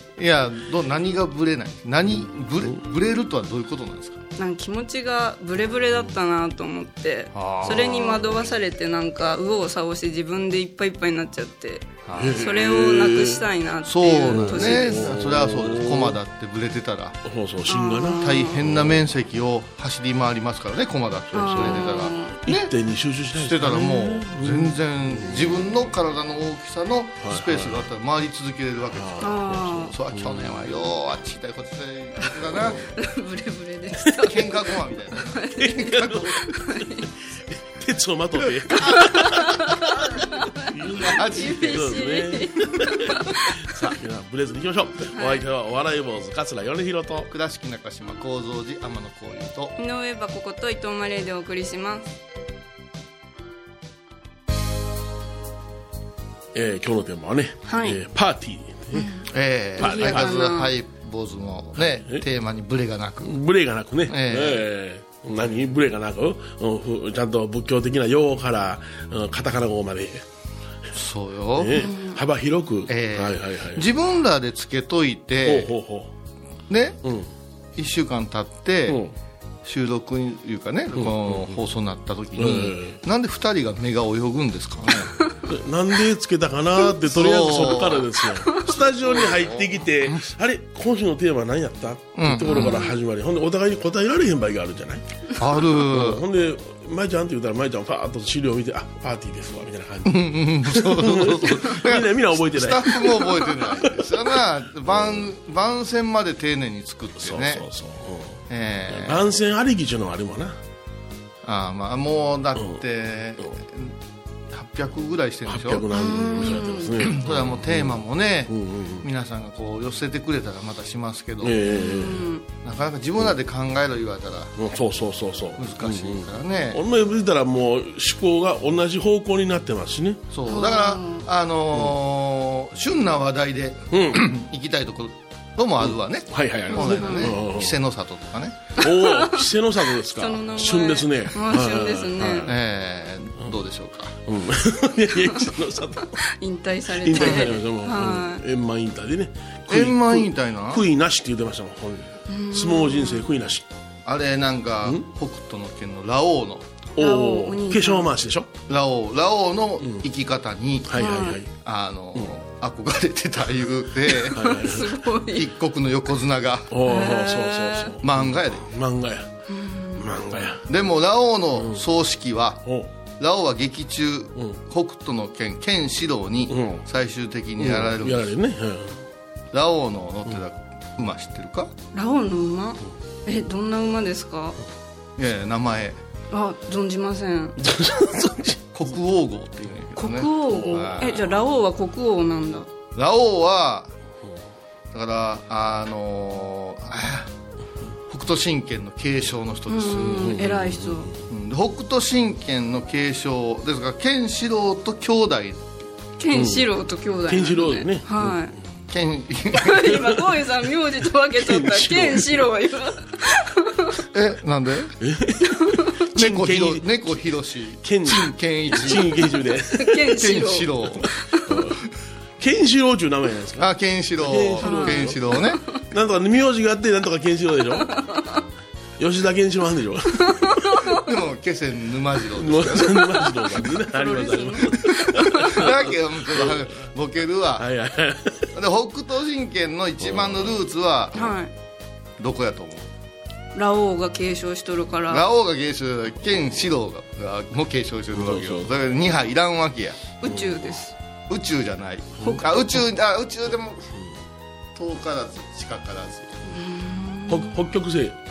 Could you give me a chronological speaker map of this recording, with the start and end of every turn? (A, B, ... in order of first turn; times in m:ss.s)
0:00.2-0:04.2 A
0:04.4-0:15.0 B
0:07.3-0:08.4 A
0:12.0-0:12.4 A
0:12.2-0:13.4 C
0:13.8-0:17.2 A
0:14.2-0:16.2 C
0:17.2-0:19.1 C
0:17.7-0:18.5 B
0:18.2-0:22.7 A
0:21.3-0:25.6 C
0:21.3-0:22.4 B
0:23.3-0:32.9 A
0:27.2-0:27.9 C
0:28.9-0:30.6 C
0:29.2-0:29.9 B
0:32.5-0:32.9 C
0:32.9-0:34.6 B
0:34.2-0:36.4 A
0:35.1-0:37.1 B
0:35.5-0:47.3 C
0:38.9-0:43.5 B
0:41.0-0:42.1 A
0:45.1-0:45.5 B
0:47.3-0:49.7 A
0:49.8-0:52.1 B
0:56.5-0:59.1 C
0:57.7-0:58.0 B
0:58.9-0:59.2 B
0:59.3-1:03.4 A
0:59.8-1:00.3 C
0:59.8-1:00.7 B
1:01.8-1:02.2 C
1:03.2-1:10.2 C
1:04.1-1:04.6 A
1:10.9-1:11.9 A
1:11.6-1:13.9 C
1:11.8-1:12.2 B
1:12.9-1:15.7 A
1:15.4-1:16.1 C
1:16.7-1:17.0 A
1:17.0-1:17.3 C
1:17.8-1:19.0 A
1:18.9-1:19.1 C
1:19.6-1:25.1 A
1:20.9-1:21.6 C
1:22.4-1:23.0 C
1:25.4-1:44.4 C
1:27.0-1:28.0 A
1:29.2-1:30.2 A
1:32.2-1:32.8 A
1:32.5-1:32.9 B
1:35.4-1:36.2 A
1:40.0-1:47.6 A
1:44.9-1:45.2 C
1:47.2-1:50.6 C
1:48.5-1:49.2 A
1:51.4-1:54.0 A
1:54.5-1:55.9 A
1:55.5-1:58.0 C
1:55.9-1:57.0 B
1:57.0-2:01.6 A
1:58.5-1:59.0 C
2:01.4-2:02.3 C
2:01.6-2:02.4 B
2:02.6-2:04.6 A
2:04.6-2:10.2 C
2:05.6-2:06.8 A
2:10.3-2:18.8 A
2:10.5-2:11.2 B
2:13.9-2:14.2 C
2:15.8-2:17.8 C
2:16.7-2:17.4 B
2:18.8-2:22.6 C
2:18.8-2:19.4 B
2:20.1-2:22.5 B
2:22.4-2:24.2 A
2:24.3-2:26.2 C
2:26.2-2:28.4 B
2:26.9-2:33.6 C
2:29.7-2:30.8 A
2:32.3-2:33.3 B
2:34.0-2:36.7 A
2:37.0-2:38.5 C
2:37.0-2:38.1 B
2:38.7-2:40.9 A
2:40.9-2:41.5 C
2:40.9-2:41.4 B
2:41.6-2:44.6 A
2:44.3-2:44.9 C
2:44.3-2:45.5 B
2:45.2-2:46.7 A
2:46.7-2:49.3 C
2:46.8-2:47.9 B
2:48.0-2:48.7 A
2:49.5-2:50.1 B
2:49.9-2:50.6 C
2:50.6-2:52.6 A
2:51.5-2:51.8 C
2:53.2-2:58.3 A
2:56.5-2:56.8 C
2:57.6-2:59.0 C
2:59.5-3:01.7 A
3:01.9-3:04.6 B
3:05.2-3:06.0 A
3:06.3-3:07.6 B
3:07.6-3:08.6 C
3:08.7-3:11.2 A
3:10.0-3:12.7 B
3:10.5-3:11.3 C
3:12.9-3:13.9 A
3:14.9-3:17.3 A
3:18.1-3:20.4 A
3:19.7-3:21.1 B
3:20.1-3:21.2 C
3:21.3-3:25.6 A
3:26.2-3:28.6 B
3:26.3-3:26.7 C
3:27.3-3:28.6 C
3:28.9-3:30.1 A
3:29.5-3:33.9 B
3:31.4-3:32.5 C
3:34.1-3:34.9 A
3:35.0-3:37.1 C
3:35.6-3:35.9 B
3:36.1-3:39.1 A
3:37.8-3:40.1 C
3:39.7-3:41.6 B
3:40.1-3:41.1 A
3:41.4-3:41.8 C
3:42.4-3:47.9 C
3:43.6-3:45.6 A
3:44.6-3:45.5 B
3:47.9-3:48.4 B
3:49.0-3:50.7 C
3:50.4-3:50.8 B
3:50.9-3:53.2 A
3:52.4-3:56.8 C
3:53.8-3:55.3 B
3:55.2-3:57.6 A
3:57.6-3:58.5 C
3:58.5-4:01.3 A
4:00.0-4:00.6 C
4:01.1-4:01.5 B
4:02.2-4:02.9 A
4:03.5-4:05.2 B
4:05.1-4:10.0 A
4:08.1-4:08.8 C
4:10.2-4:10.9 B
4:10.2-4:10.8 C
4:11.3-4:13.8 A
4:14.8-4:16.3 A
4:16.5-4:17.6 B
4:17.3-4:18.2 C